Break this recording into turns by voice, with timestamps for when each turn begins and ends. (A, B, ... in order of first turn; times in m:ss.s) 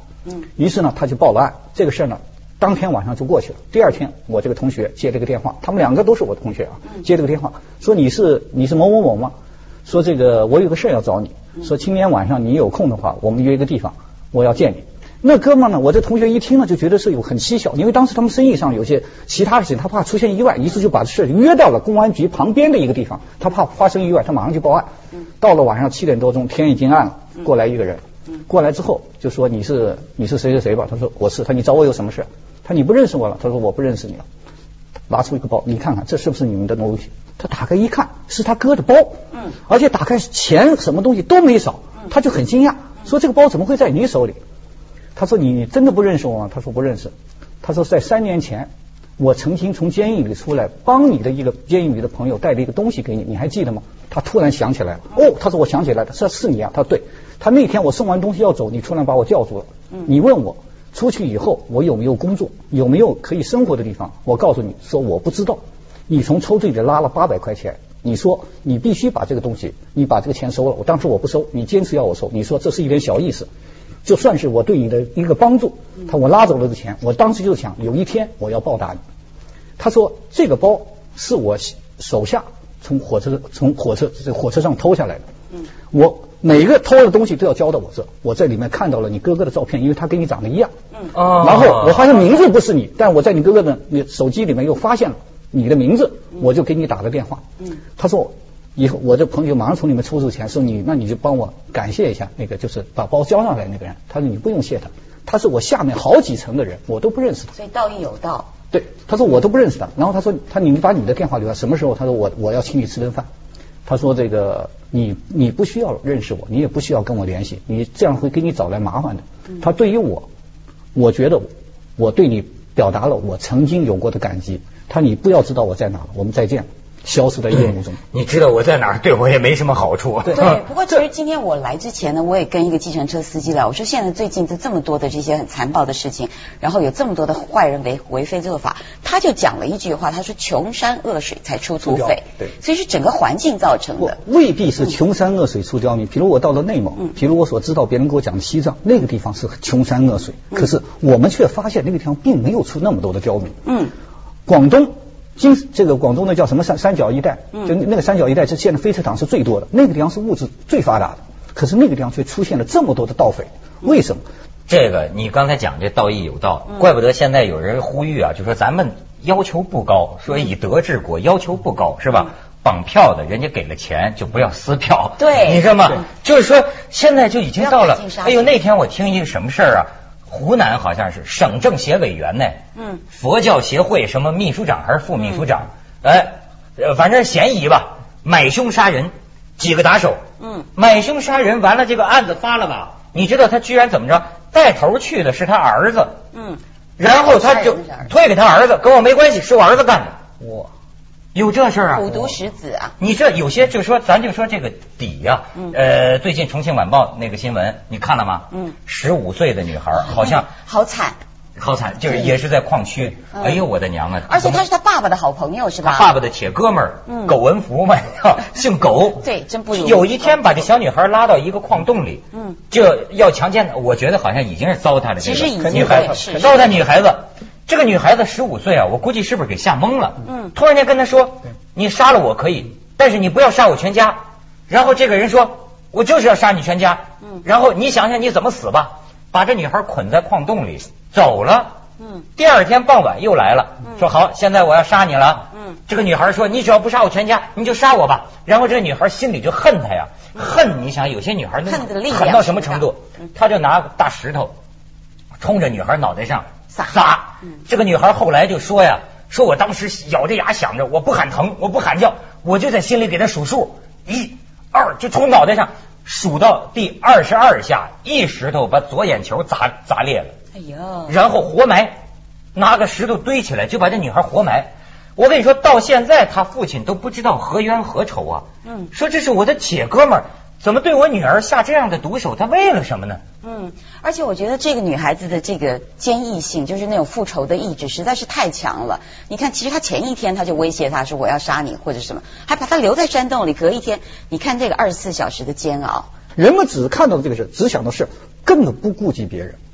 0:00.6-0:09.3 A
0:09.8-0:34.2 A
0:35.1-0:44.4 A
0:45.2-1:13.5 A
1:14.0-1:19.0 A
1:19.8-1:25.2 A
1:25.9-1:30.7 A
1:31.1-1:32.1 B
1:31.3-1:37.4 A
1:38.0-1:47.5 A
1:47.5-1:48.5 C
1:48.7-1:53.3 A
1:53.8-2:00.3 A
2:00.9-2:08.0 A
2:08.1-2:10.6 B
2:10.3-2:24.2 C
2:21.8-2:22.5 A
2:24.0-2:33.6 A
2:33.6-2:33.9 C
2:34.5-2:44.2 A
2:44.7-3:02.6 B
2:55.2-2:55.7 C
2:57.6-2:58.5 C
3:02.8-3:03.0 C
3:03.1-3:10.2 B
3:10.4-3:10.7 C
3:10.7-3:16.2 B
3:16.3-3:18.1 C
3:17.0-3:20.2 B
3:20.4-3:20.7 A
3:21.3-3:22.3 B
3:21.9-3:22.9 C
3:23.0-3:30.5 B
3:30.0-3:31.2 C
3:31.6-3:34.6 B
3:33.3-3:33.6 C
3:34.2-3:36.1 C
3:35.8-4:01.8 B
3:37.1-3:37.3 C
3:39.2-3:40.6 C
3:45.2-3:46.7 C
3:45.6-3:46.8 A
4:02.4-4:14.5 B
4:11.6-4:12.9 C
4:15.4-4:30.3 B
4:30.5-4:31.1 C
4:31.1-4:32.0 B
4:32.5-4:43.2 B
4:38.6-4:38.9 C
4:43.4-4:56.1 C
4:56.4-4:59.6 A